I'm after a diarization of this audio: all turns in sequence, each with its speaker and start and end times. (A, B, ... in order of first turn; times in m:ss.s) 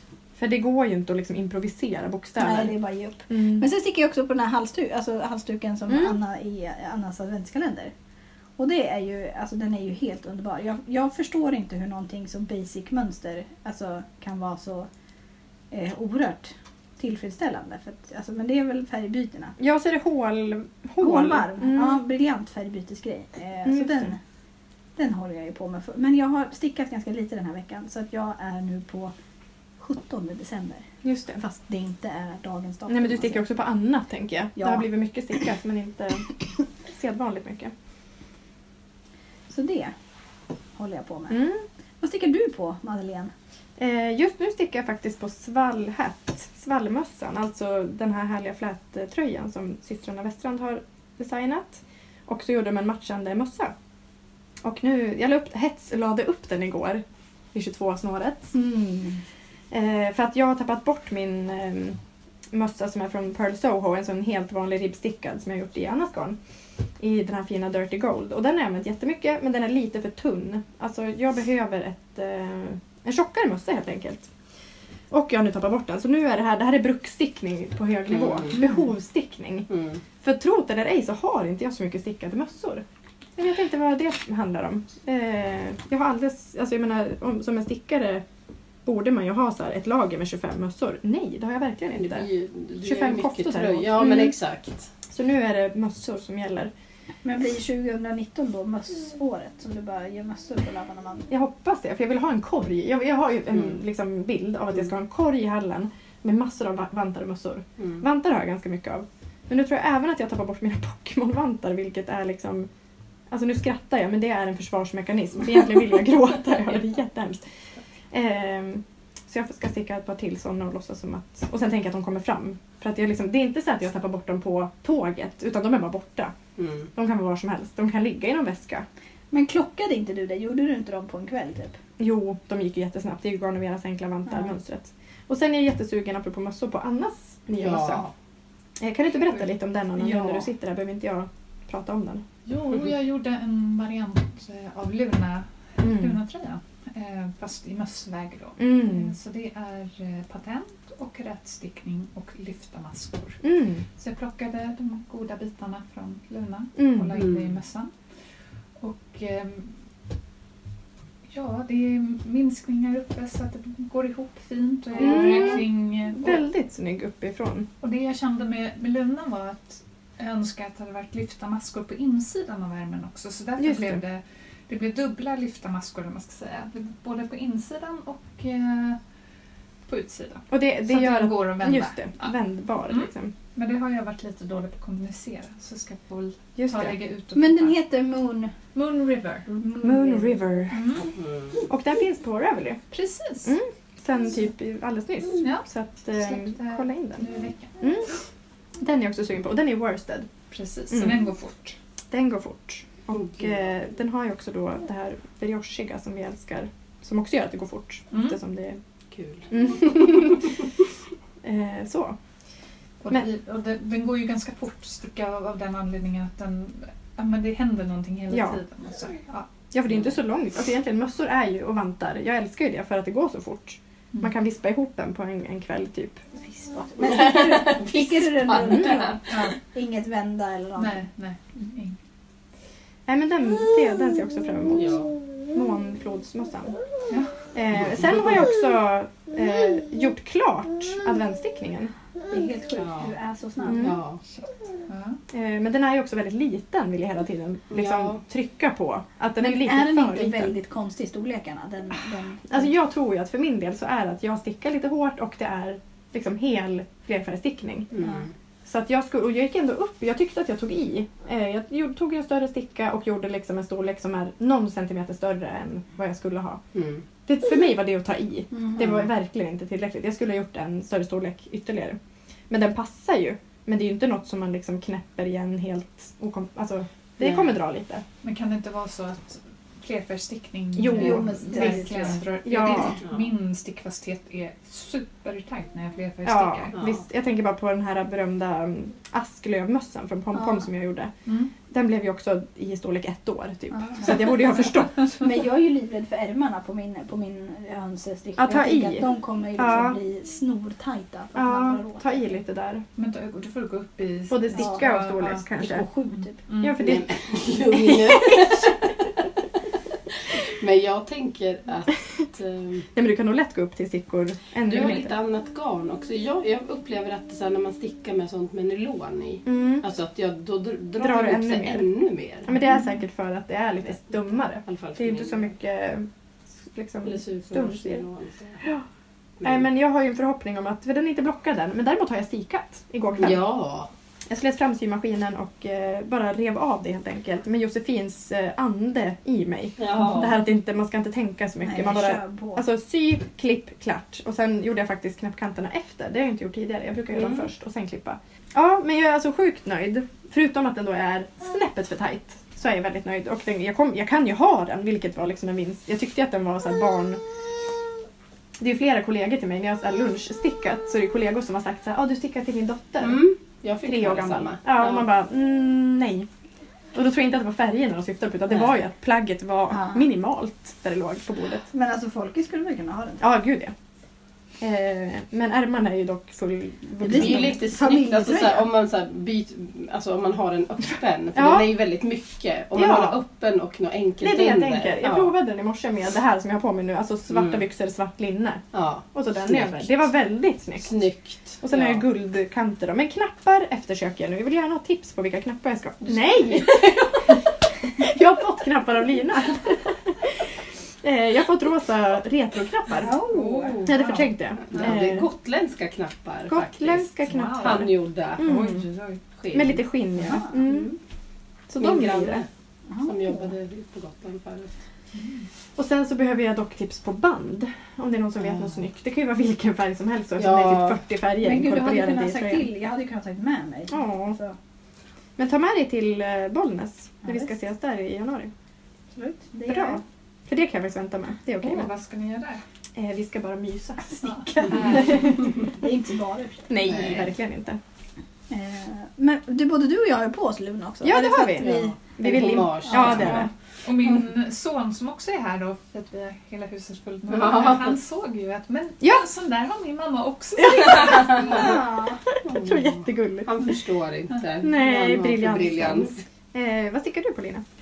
0:00.4-0:02.7 A
0:02.4-0:07.9 B
0:03.3-0:03.7 A
0:05.9-0:06.2 A
0:08.6-0:14.9 B
0:15.7-0:19.6 B
0:19.6-0:22.0 A
0:21.0-0:24.2 B
0:23.7-0:24.1 A
0:25.0-0:29.1 B
0:29.8-0:33.4 B
0:31.0-0:31.4 A
0:32.9-0:36.3 A
0:34.6-0:34.9 B
0:36.9-0:37.7 A
0:39.5-0:39.9 B
0:40.8-0:41.4 B
0:41.3-0:41.6 A
0:42.0-0:43.3 B
0:43.8-0:53.7 A
0:54.6-0:57.0 A
0:57.5-0:58.5 A
0:58.5-0:59.2 B
0:59.7-1:02.0 A
1:02.5-1:06.4 A
1:07.0-1:14.3 A
1:15.1-1:19.7 A
1:19.7-1:20.0 C
1:20.2-1:22.8 A
1:23.4-1:28.2 A
1:28.8-1:32.3 A
1:32.0-1:34.9 C
1:32.8-1:34.3 A
1:35.1-1:36.7 A
1:37.2-1:41.3 B
1:41.3-1:52.7 A
1:53.3-1:57.4 A
1:58.1-2:06.3 A
2:06.6-2:06.9 C
2:07.0-2:08.8 A
2:09.3-2:11.8 B
2:12.0-2:18.0 A
2:17.6-2:18.1 C
2:18.8-2:22.2 A
2:19.2-2:20.5 D
2:22.5-2:33.4 D
2:25.8-2:26.2 A
2:28.6-2:29.1 A
2:33.4-2:33.8 A
2:34.0-2:37.9 D
2:36.8-2:37.2 A
2:37.2-2:37.5 C
2:38.8-2:39.7 D
2:41.3-2:46.3 D
2:45.0-2:47.7 A
2:45.0-2:45.5 C
2:47.8-2:59.0 D
2:53.6-2:54.0 A
2:59.9-3:02.3 D
3:00.5-3:03.3 A
3:02.9-3:07.8 D
3:06.6-3:07.0 A
3:07.3-3:08.6 B
3:08.7-3:09.5 D
3:09.5-3:10.3 B
3:09.8-3:11.0 A
3:10.7-3:11.1 D
3:11.1-3:11.6 C
3:11.7-3:12.8 A
3:12.9-3:13.5 D
3:13.4-3:17.3 A
3:15.4-3:15.7 D
3:16.2-3:17.7 D
3:17.8-3:18.1 A
3:18.8-3:20.3 A
3:20.5-3:21.8 D
3:20.9-3:21.3 A
3:22.1-3:28.8 A
3:28.1-3:28.4 D
3:29.1-3:29.5 C
3:29.5-3:30.6 A
3:31.4-3:32.2 A
3:33.0-3:39.5 D
3:38.3-3:38.6 A
3:39.7-3:46.3 A
3:46.4-3:51.0 B
3:47.0-3:49.0 C
3:49.3-3:49.6 D
3:50.8-3:52.0 D
3:53.1-3:55.0 A
3:54.8-3:55.1 C
3:55.5-3:56.8 A
3:57.5-4:01.9 A
4:02.3-4:04.0 B
4:02.8-4:03.1 C
4:03.6-4:04.0 A
4:03.8-4:04.2 C
4:04.4-4:05.2 D
4:05.3-4:10.5 A
4:07.7-4:08.2 C
4:09.4-4:12.7 B
4:12.5-4:17.9 A
4:17.9-4:18.3 C
4:18.7-4:26.6 A
4:26.7-4:27.0 C
4:27.3-4:32.0 A
4:28.5-4:28.8 B
4:32.5-4:38.0 A
4:38.2-4:46.8 D
4:40.8-4:43.0 A
4:40.9-4:42.2 B
4:43.0-4:43.3 C
4:46.2-4:51.1 A
4:50.3-4:50.6 B
4:51.3-4:51.5 D
4:51.7-4:55.1 A
4:53.8-4:54.1 B
4:55.2-5:02.3 B
4:58.4-5:00.0 A
5:01.4-5:02.8 A
5:03.0-5:05.4 D
5:04.3-5:05.8 A
5:04.6-5:05.0 B
5:05.6-5:06.4 B
5:06.1-5:06.9 D
5:06.6-5:07.0 A
5:06.8-5:08.8 C
5:07.6-5:08.8 A
5:10.6-5:12.9 C
5:13.0-5:15.1 A
5:14.7-5:22.5 C
5:19.5-5:19.8 A
5:21.0-5:21.9 A
5:22.5-5:26.1 A
5:24.6-5:25.5 C
5:26.6-5:28.0 A
5:27.0-5:28.6 C
5:29.4-5:33.4 A
5:33.2-5:33.9 C
5:34.3-5:57.2 A
5:39.8-5:40.3 C
5:41.6-5:42.6 B
5:58.6-6:03.2 A
6:03.0-6:05.1 C
6:03.8-6:06.3 A
6:06.9-6:11.7 A
6:09.7-6:10.1 B
6:11.7-6:13.2 B
6:13.2-6:13.7 A
6:14.6-6:17.6 A
6:17.0-6:18.7 B
6:17.1-6:25.3 C
6:21.4-6:21.7 A
6:22.8-6:23.2 A
6:24.2-6:30.9 A
6:27.3-6:27.6 C
6:28.7-6:29.9 C
6:30.8-6:32.0 C
6:31.6-6:37.4 A
6:36.1-6:37.1 C
6:38.0-6:43.2 A
6:43.0-6:44.9 D
6:43.0-6:43.8 B
6:43.8-6:45.3 A
6:44.7-6:48.4 C
6:46.5-6:48.8 A
6:47.2-6:49.2 D
6:49.4-6:49.8 C
6:49.5-6:50.9 A
6:50.3-6:50.6 B
6:50.5-6:51.0 C
6:51.7-6:52.4 A
6:51.8-6:52.5 C
6:52.9-6:53.5 B
6:53.0-6:54.7 C
6:55.1-6:55.5 D
6:55.8-7:02.7 A
7:00.4-7:01.0 C
7:01.4-7:04.6 B
7:03.9-7:04.4 A
7:05.4-7:08.5 A
7:09.1-7:10.0 B
7:09.7-7:11.9 A
7:11.6-7:12.6 D
7:13.0-7:15.5 A
7:14.2-7:15.5 D
7:15.1-7:16.9 B
7:16.7-7:17.8 A
7:16.9-7:17.3 C
7:18.5-7:22.0 B
7:21.0-7:23.5 A
7:21.6-7:23.5 C
7:22.8-7:23.4 B
7:23.8-7:31.7 D
7:27.3-7:27.9 C
7:30.6-7:31.6 A
7:31.1-7:31.6 C
7:31.4-7:32.2 B
7:32.3-7:33.6 A
7:32.4-7:36.2 C
7:34.6-7:37.6 A